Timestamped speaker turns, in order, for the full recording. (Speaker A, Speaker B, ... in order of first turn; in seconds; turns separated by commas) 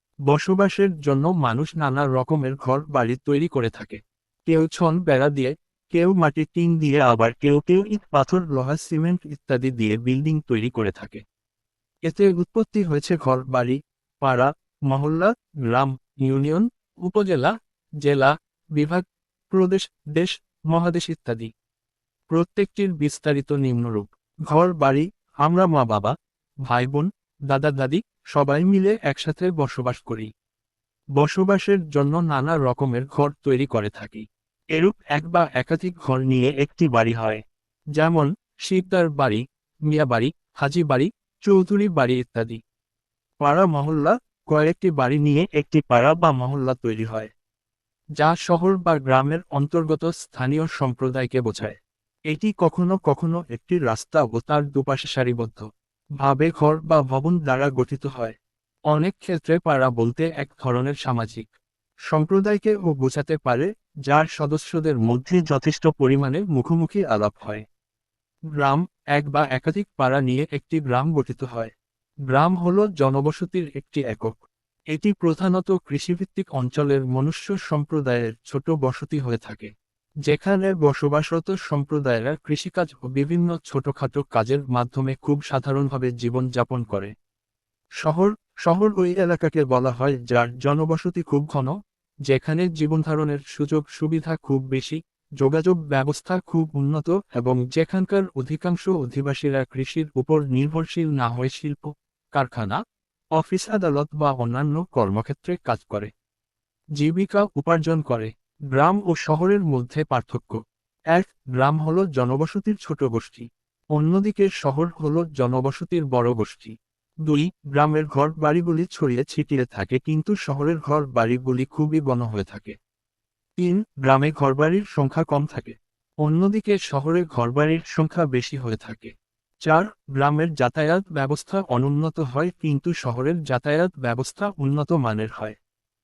Speaker A: 0.3-11.2, Speaker A: 12.1-21.5, Speaker A: 22.3-26.1, Speaker A: 26.6-30.3, Speaker A: 31.2-37.4, Speaker A: 38.0-42.6, Speaker A: 43.4-47.3, Speaker A: 48.2-51.8, Speaker A: 52.3-55.7, Speaker A: 56.2-58.4, Speaker A: 58.9-61.5, Speaker A: 62.1-67.7, Speaker A: 68.6-71.7, Speaker A: 72.3-74.4, Speaker A: 74.9-79.7, Speaker A: 80.3-87.1, Speaker A: 88.0-91.8, Speaker A: 92.3-102.8, Speaker A: 103.4-106.1, Speaker A: 107.0-110.6, Speaker A: 111.1-122.8, Speaker A: 123.6-129.1, Speaker A: 129.7-135.6